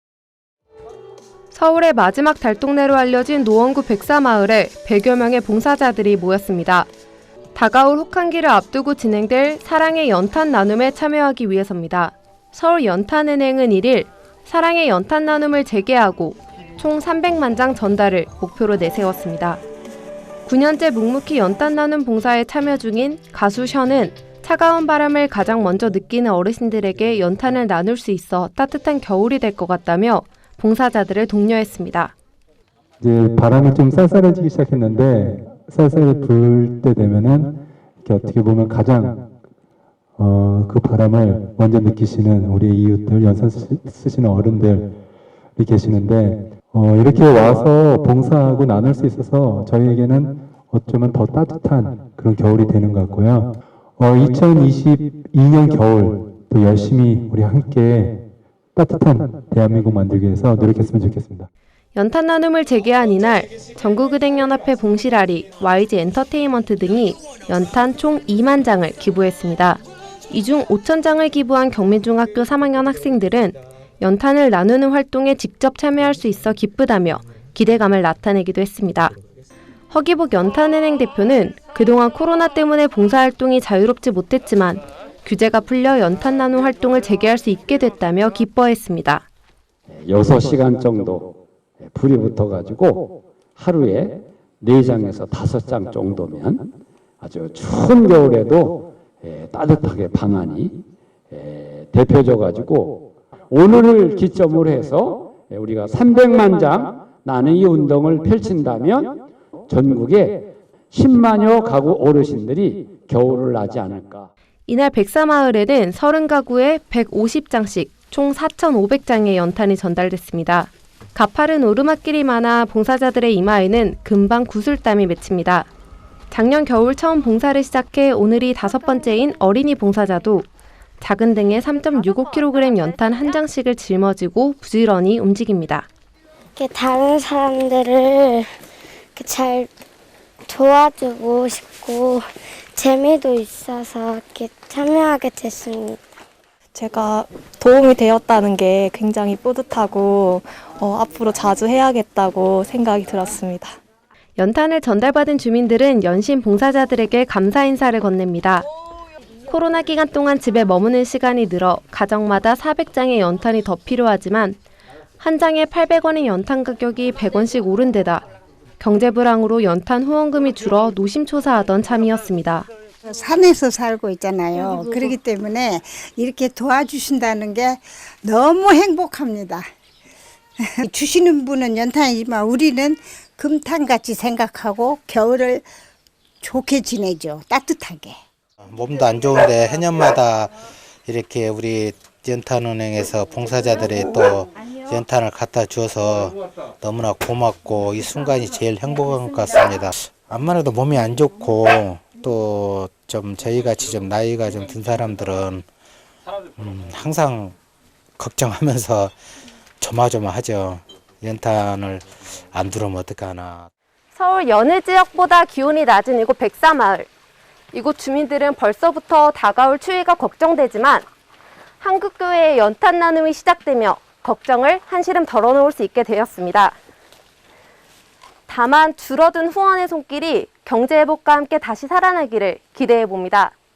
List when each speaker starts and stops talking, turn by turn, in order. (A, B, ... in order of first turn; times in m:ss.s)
0:01.5-0:06.9 A
0:07.5-0:19.6 A
0:20.5-0:32.1 A
0:33.0-0:39.3 B
0:40.2-0:45.0 B
0:45.6-0:58.2 B
0:58.8-1:01.5 B
1:02.0-1:19.2 A
1:19.9-1:29.2 A
1:29.9-1:54.3 C
1:54.7-2:05.7 A
2:06.3-2:10.5 A
2:11.0-2:15.9 A
2:16.6-2:18.5 D
2:19.2-2:19.7 D
2:20.5-2:26.0 D
2:26.7-2:33.8 E
2:34.4-2:38.7 A
2:39.5-2:44.6 A
2:45.2-2:48.2 A
2:48.8-2:52.7 A
2:53.1-2:59.7 F
3:00.6-3:05.7 F
3:06.4-3:08.2 F
3:08.6-3:25.7 G
3:26.6-3:27.6 G
3:28.2-3:29.1 G
3:29.8-3:33.7 G
3:34.2-3:37.1 A
3:37.7-3:41.1 A
3:41.8-3:46.8 A
3:48.5-3:53.6 A